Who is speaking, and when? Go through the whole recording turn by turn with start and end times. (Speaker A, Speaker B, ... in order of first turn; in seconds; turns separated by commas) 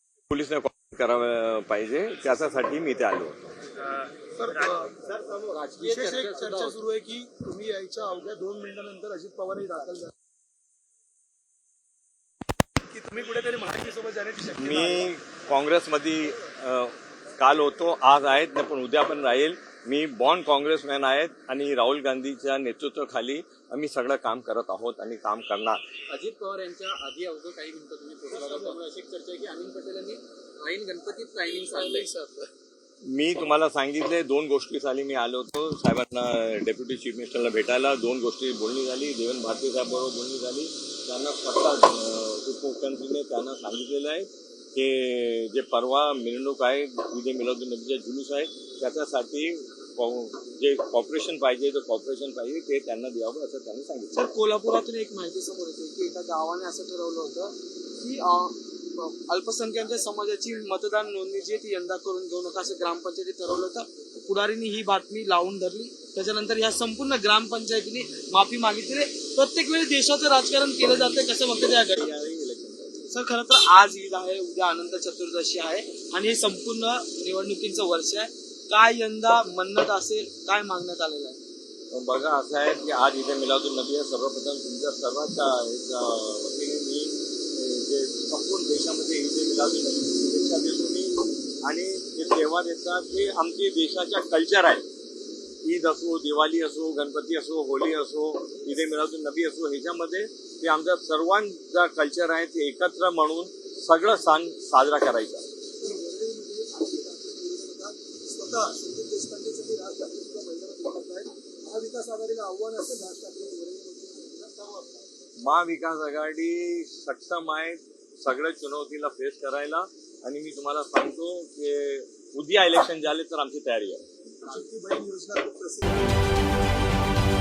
Speaker A: 0.3-3.5, Speaker B: 4.4-5.0, Speaker C: 4.4-6.8, Speaker B: 5.7-10.1, Speaker B: 12.9-15.1, Speaker A: 14.6-25.8, Speaker C: 26.1-32.3, Speaker D: 28.3-28.7, Speaker D: 31.7-32.3, Speaker A: 33.1-54.2, Speaker D: 54.2-72.0, Speaker A: 71.9-73.2, Speaker D: 73.1-81.4, Speaker A: 81.9-94.8, Speaker A: 95.7-105.5, Speaker B: 105.8-114.9, Speaker A: 115.4-124.0, Speaker B: 124.4-126.2